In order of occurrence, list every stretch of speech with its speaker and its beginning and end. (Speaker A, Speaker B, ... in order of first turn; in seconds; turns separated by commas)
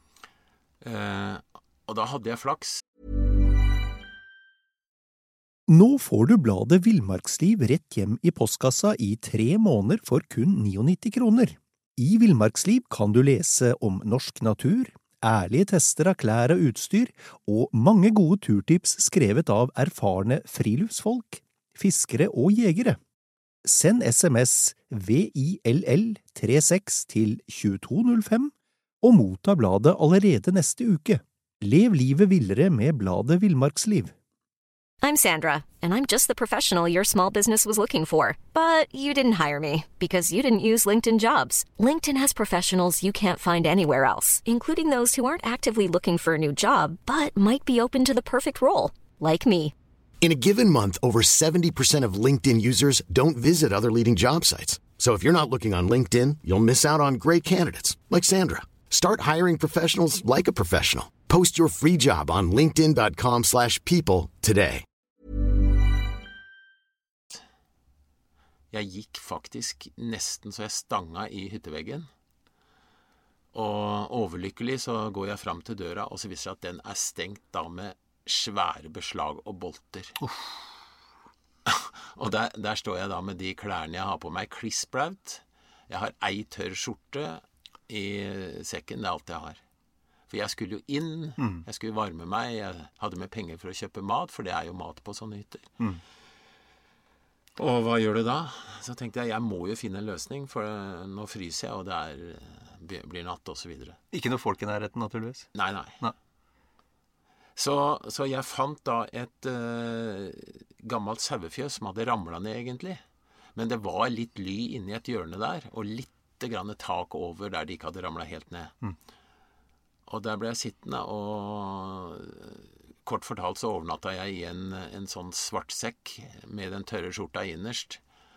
Speaker A: 0.8-2.8, Speaker B: 5.7-23.0, Speaker B: 23.7-34.1, Speaker C: 35.0-49.7, Speaker D: 50.2-64.8, Speaker A: 68.7-72.1, Speaker A: 73.5-80.2, Speaker E: 80.2-80.5, Speaker A: 81.7-89.6, Speaker A: 90.3-95.7, Speaker E: 91.4-91.7, Speaker A: 97.6-104.0, Speaker E: 104.1-106.2, Speaker A: 105.5-106.0, Speaker A: 107.6-113.0, Speaker A: 113.5-118.7, Speaker A: 120.1-128.0